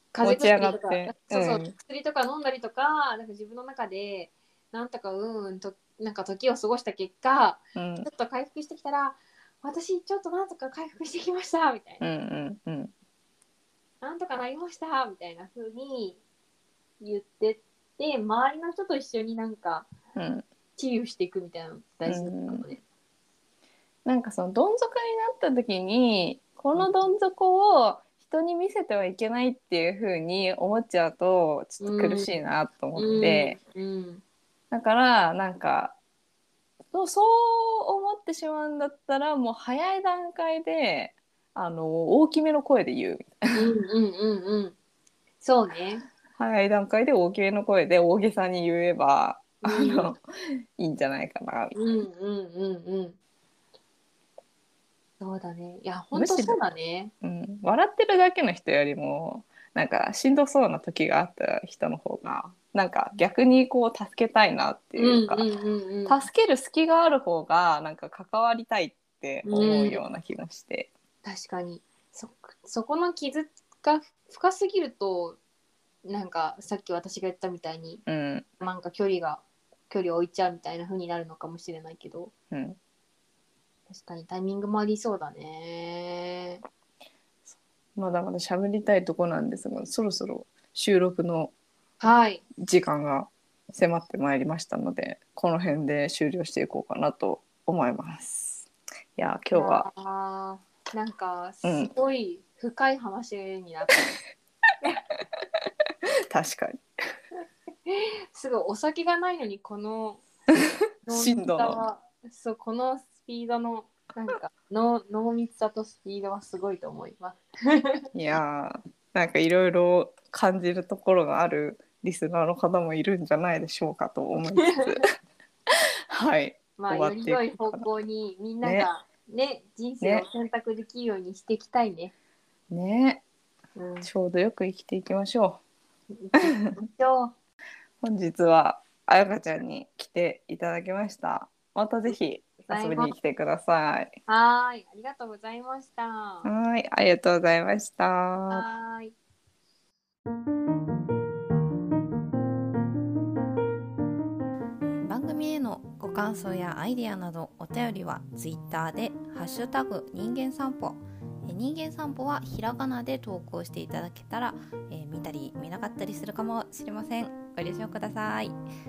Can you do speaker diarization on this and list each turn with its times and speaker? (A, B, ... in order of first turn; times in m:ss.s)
0:00.1-0:12.0 A
0:00.2-0:01.8 B
0:07.8-0:08.1 B
0:12.0-0:12.9 B
0:14.0-0:16.2 A
0:17.0-0:19.9 A
0:20.2-0:20.4 B
0:20.8-0:22.8 A
0:22.1-0:22.6 B
0:24.0-0:33.6 B
0:26.8-0:27.1 A
0:31.8-0:32.4 A
0:33.0-0:34.2 A
0:34.7-0:36.0 B
0:36.9-0:43.7 B
0:43.5-0:44.8 A
0:45.4-0:46.0 A
0:46.4-0:50.2 B
0:49.6-0:50.1 A
0:50.8-0:51.8 B
0:51.7-0:53.2 A
0:55.2-0:57.1 A
0:56.1-0:56.6 B
0:57.2-1:05.4 B
1:05.0-1:06.3 A
1:06.1-1:10.9 B
1:09.4-1:10.0 A
1:11.2-1:15.4 A
1:16.0-1:18.0 A
1:18.1-1:18.5 B
1:18.6-1:22.3 A
1:22.5-1:22.8 B
1:23.9-1:26.6 A
1:27.5-1:31.5 B
1:32.0-1:32.4 A
1:32.6-1:39.9 B
1:39.5-1:44.1 A
1:41.6-1:41.9 B
1:46.3-1:46.8 B
1:47.9-1:50.2 A
1:50.5-1:51.8 B
1:51.1-1:58.1 A
1:58.1-2:05.0 B
2:04.6-2:04.9 A
2:06.1-2:07.8 B
2:06.8-2:12.1 A
2:08.6-2:08.9 B
2:10.0-2:10.3 B
2:12.7-2:13.2 B
2:13.8-2:14.1 A
2:14.0-2:15.6 B
2:16.1-2:17.3 A
2:16.4-2:16.7 B
2:18.0-2:24.1 B
2:22.7-2:23.1 A
2:24.3-2:26.5 A
2:26.4-2:28.6 B
2:28.5-2:29.2 A
2:34.9-2:48.6 C